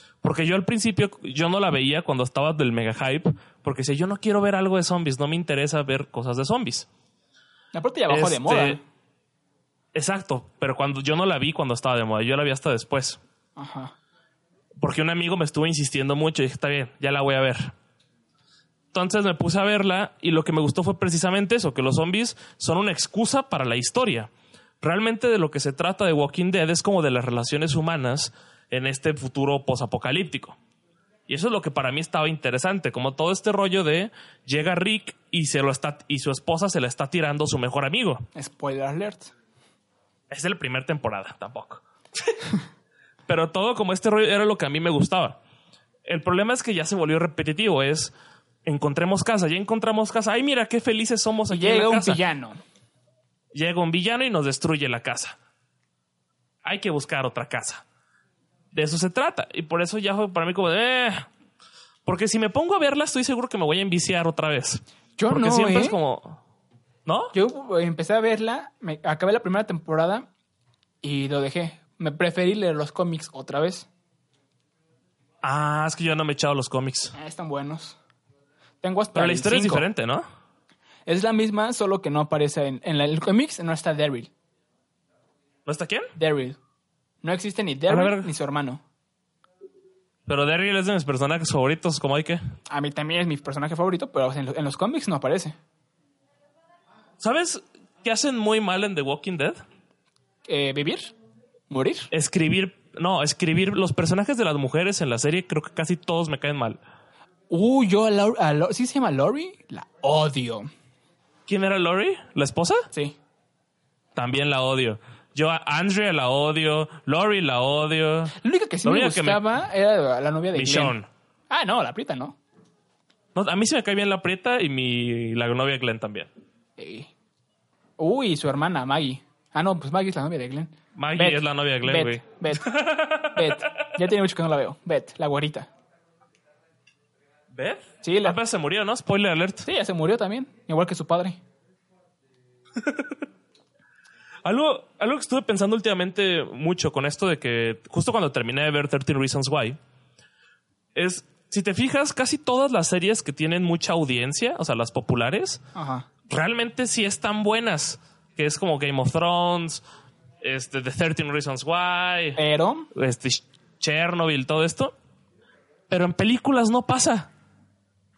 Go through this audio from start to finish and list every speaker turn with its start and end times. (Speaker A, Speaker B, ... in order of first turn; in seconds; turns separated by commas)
Speaker A: 0.2-6.9, Speaker B: 7.7-8.8, Speaker A: 8.1-8.8, Speaker A: 9.9-13.2, Speaker B: 13.6-13.9, Speaker A: 14.8-17.7, Speaker A: 18.9-30.6, Speaker A: 31.3-38.2, Speaker B: 38.4-39.3, Speaker A: 40.3-42.4, Speaker A: 43.3-45.4, Speaker A: 46.0-48.1, Speaker A: 48.6-52.2, Speaker B: 51.5-52.6, Speaker A: 53.5-55.4, Speaker A: 56.6-57.8, Speaker A: 58.7-61.3, Speaker A: 62.1-66.4, Speaker B: 65.2-66.0, Speaker A: 67.0-67.3, Speaker B: 67.3-70.3, Speaker B: 71.0-73.9, Speaker A: 75.4-77.1, Speaker B: 77.1-78.0, Speaker B: 78.8-79.9, Speaker A: 79.1-80.3, Speaker B: 81.1-84.3, Speaker A: 85.7-86.1, Speaker B: 86.2-86.6, Speaker B: 87.2-88.8, Speaker A: 87.9-88.3, Speaker A: 90.3-92.4, Speaker B: 92.7-95.5, Speaker A: 97.2-99.6, Speaker B: 100.5-101.1, Speaker B: 101.7-102.1, Speaker A: 102.1-106.8, Speaker B: 107.5-110.7, Speaker A: 111.5-112.9, Speaker B: 112.9-113.2, Speaker A: 114.2-119.5, Speaker B: 118.4-121.0, Speaker A: 120.5-121.1, Speaker B: 121.5-122.4, Speaker A: 123.3-126.3, Speaker B: 126.8-127.1, Speaker B: 128.0-132.7, Speaker A: 131.0-133.6, Speaker B: 133.3-135.7, Speaker A: 137.5-139.7, Speaker B: 138.0-138.4, Speaker B: 139.6-141.4, Speaker A: 142.8-143.2, Speaker A: 144.4-149.8, Speaker A: 150.9-155.6, Speaker B: 155.8-156.1, Speaker A: 156.3-159.8, Speaker A: 160.4-162.4, Speaker B: 162.4-162.9, Speaker A: 162.9-164.9, Speaker A: 165.9-167.3